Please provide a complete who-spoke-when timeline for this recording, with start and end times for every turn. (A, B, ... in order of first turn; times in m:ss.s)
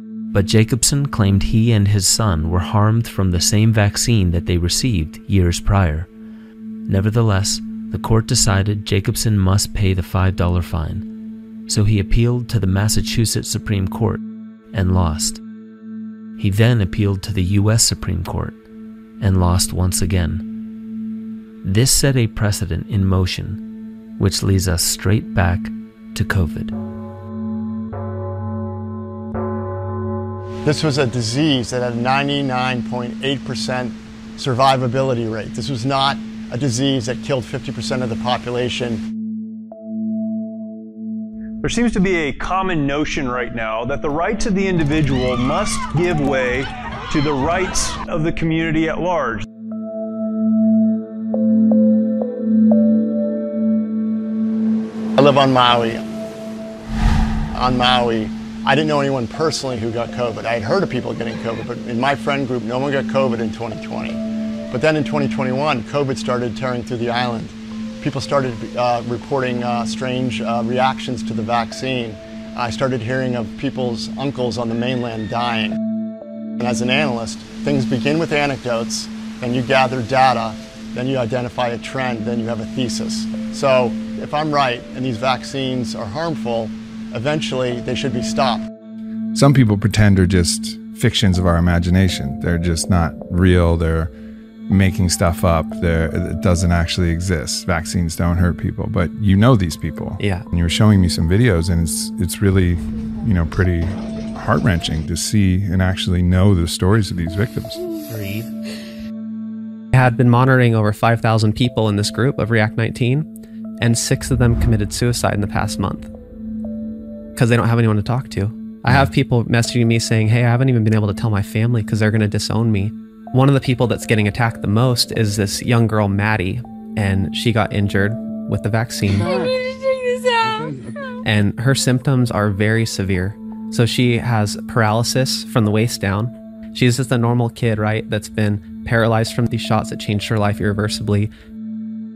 0:00.3-0:06.1 A
0:06.9-0:11.1 A
0:11.7-0:15.4 A
0:16.4-0:18.6 A
0:19.2-0:20.5 A
0:21.6-0:23.6 A
0:24.2-0:26.7 A
0:30.6-0:39.0 B
0:41.6-0:49.4 C
0:55.2-0:56.0 B
0:57.5-1:15.8 B
1:16.6-1:28.6 B
1:29.3-1:34.1 D
1:34.7-1:47.8 D
1:40.2-1:40.4 E
1:49.9-1:53.3 E
1:53.8-1:56.1 E
1:57.3-2:09.4 E
2:11.2-2:21.3 E